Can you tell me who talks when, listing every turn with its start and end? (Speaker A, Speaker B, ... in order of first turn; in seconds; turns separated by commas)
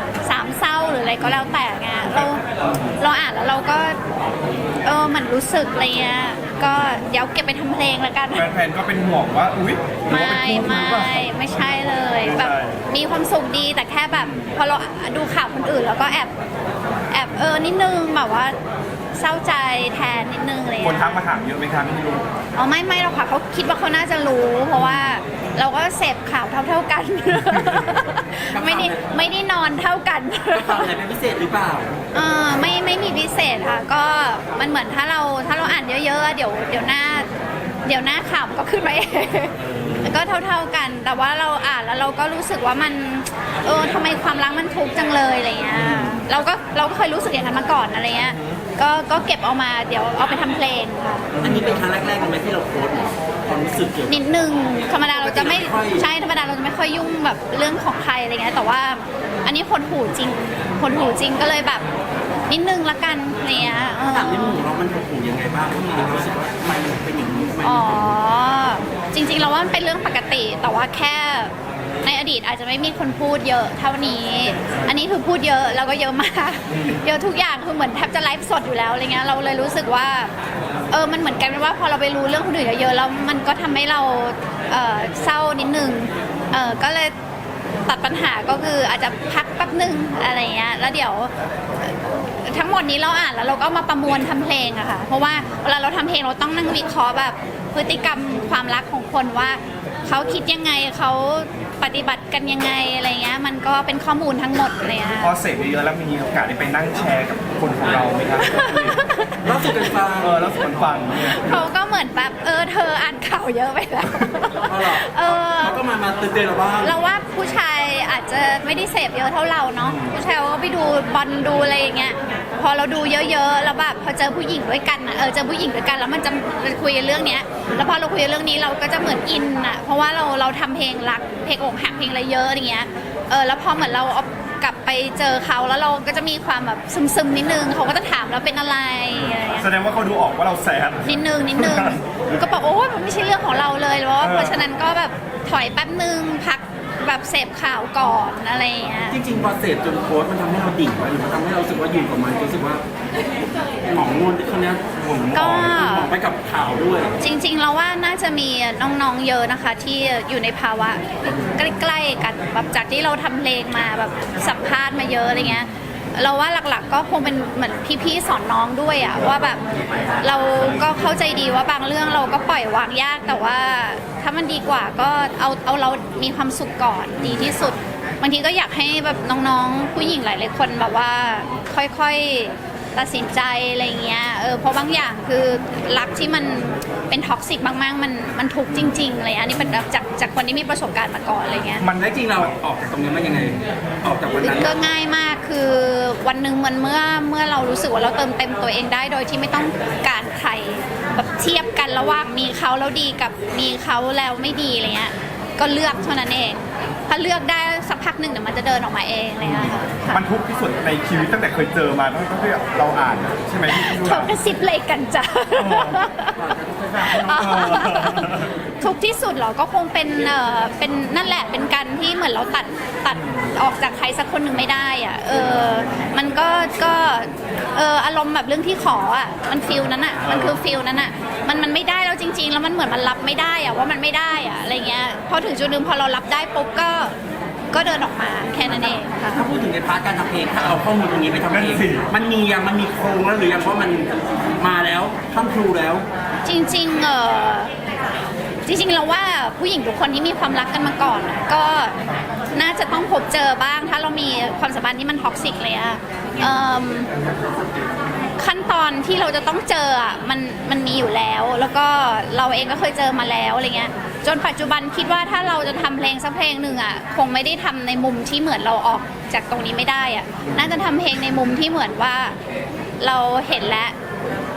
Speaker A: 0.2-2.4, Speaker B: 2.7-3.0, Speaker A: 3.0-4.0, Speaker A: 4.8-8.5, Speaker C: 8.3-11.2, Speaker A: 10.1-16.3, Speaker C: 12.2-12.8, Speaker C: 14.1-14.5, Speaker A: 17.1-18.6, Speaker A: 19.1-21.2, Speaker C: 20.8-22.2, Speaker A: 22.5-30.9, Speaker B: 28.5-29.1, Speaker B: 30.5-31.9, Speaker A: 32.1-37.3, Speaker A: 37.8-51.3, Speaker B: 39.6-40.2, Speaker B: 45.7-46.2, Speaker C: 51.3-51.7, Speaker B: 51.4-54.2, Speaker A: 54.1-61.9, Speaker B: 55.0-56.1, Speaker A: 62.5-64.6, Speaker B: 63.7-68.2, Speaker A: 67.6-80.3, Speaker A: 80.9-87.1, Speaker A: 87.8-105.3, Speaker C: 105.2-109.1, Speaker A: 108.4-109.4, Speaker B: 109.4-110.6, Speaker C: 110.2-111.6, Speaker A: 111.2-115.8, Speaker B: 114.6-117.0, Speaker A: 116.8-139.7, Speaker B: 119.8-120.1, Speaker C: 139.5-142.0, Speaker A: 141.0-149.2, Speaker C: 144.2-144.7, Speaker B: 149.1-152.8, Speaker B: 153.8-157.1, Speaker A: 155.3-156.1, Speaker A: 157.2-169.6, Speaker A: 170.2-191.9, Speaker C: 191.8-192.5, Speaker B: 191.9-194.8, Speaker A: 194.4-210.2, Speaker C: 209.4-214.3, Speaker A: 213.7-216.4, Speaker C: 215.5-216.1, Speaker B: 216.3-218.0, Speaker A: 217.0-237.1, Speaker C: 217.3-218.5, Speaker C: 230.2-230.6, Speaker A: 237.7-239.4, Speaker B: 238.7-246.0, Speaker C: 241.5-242.1, Speaker A: 246.4-247.7, Speaker A: 248.7-251.9, Speaker A: 252.5-257.1, Speaker A: 258.4-272.4, Speaker A: 273.0-273.9